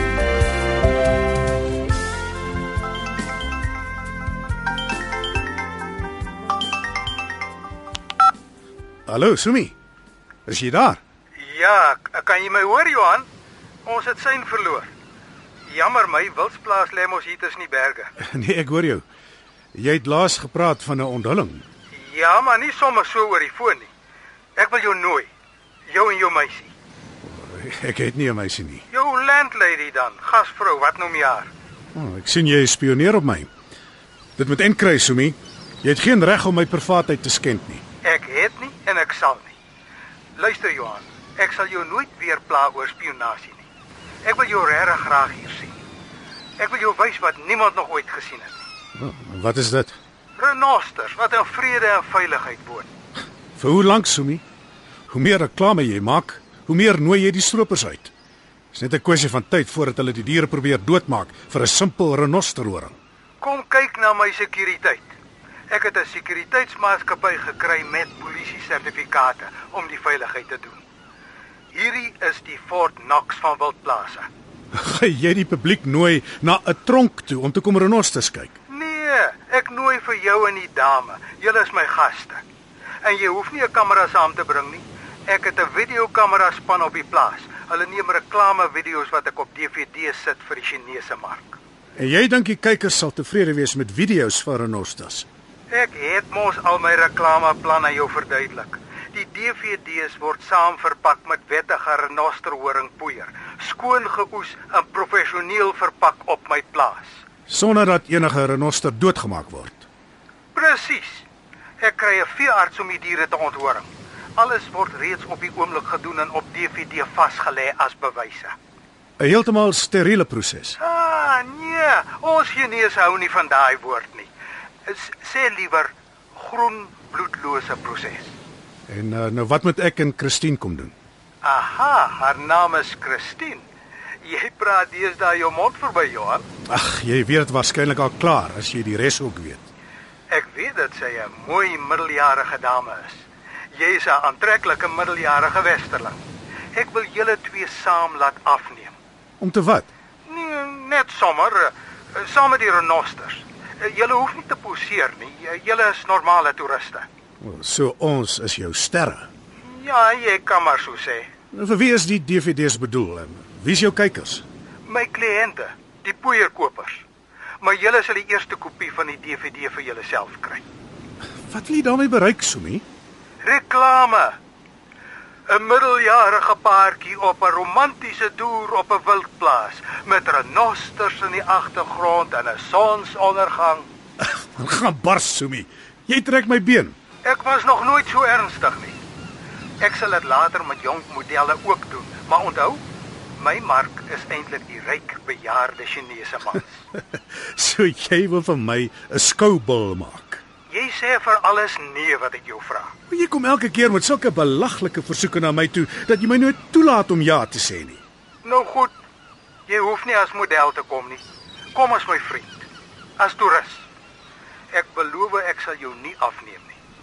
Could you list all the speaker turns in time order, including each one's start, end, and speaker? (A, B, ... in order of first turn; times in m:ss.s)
0:09.1-0:09.7 A
0:10.4-0:11.0 A
0:11.4-0:13.3 B
0:13.8-0:14.9 B
0:15.7-0:18.1 B
0:18.2-0:19.0 A
0:19.7-0:21.6 A
0:22.0-0:23.9 B
0:24.6-0:25.3 B
0:25.9-0:26.7 B
0:27.2-0:28.8 A
0:28.9-0:31.5 B
0:31.9-0:33.5 A
0:34.4-0:37.8 A
0:38.0-0:39.5 B
0:40.4-0:43.7 B
0:44.2-0:45.7 B
0:46.6-0:48.6 B
0:49.0-0:50.0 A
0:50.4-0:52.9 B
0:53.6-0:54.4 A
0:55.1-0:58.1 A
0:58.7-1:03.0 A
1:03.4-1:05.1 B
1:05.7-1:10.8 B
1:11.7-1:14.3 B
1:14.7-1:18.5 A
1:18.7-1:22.4 B
1:23.0-1:31.6 B
1:32.0-1:35.2 A
1:35.7-1:47.2 B
1:47.5-1:49.8 A
1:50.5-1:51.2 B
1:51.8-1:58.5 B
1:59.2-2:00.8 A
2:00.8-2:04.3 B
2:04.8-2:08.3 B
2:08.9-2:10.9 A
2:11.4-2:13.6 B
2:14.2-2:16.4 B
2:16.7-2:19.7 A
2:20.3-2:23.2 B
2:23.7-2:26.2 B
2:26.7-2:29.0 B
2:29.4-2:29.9 A
2:30.2-2:37.0 B
2:37.4-2:39.3 A
2:39.7-2:41.3 B
2:41.5-2:44.4 A
2:44.9-2:47.0 B
2:47.6-2:50.6 B
2:51.5-2:52.8 A
2:53.4-2:54.4 B
2:55.5-3:03.9 B
3:04.2-3:07.0 A
3:07.2-3:08.9 B
3:09.8-3:12.8 B
3:13.4-3:16.7 B
3:17.5-3:20.4 A
3:20.7-3:22.9 B
3:23.1-3:28.0 A
3:28.4-3:28.9 B
3:29.7-3:31.2 B
3:31.7-3:32.7 B
3:33.2-3:33.9 B
3:34.7-3:36.8 B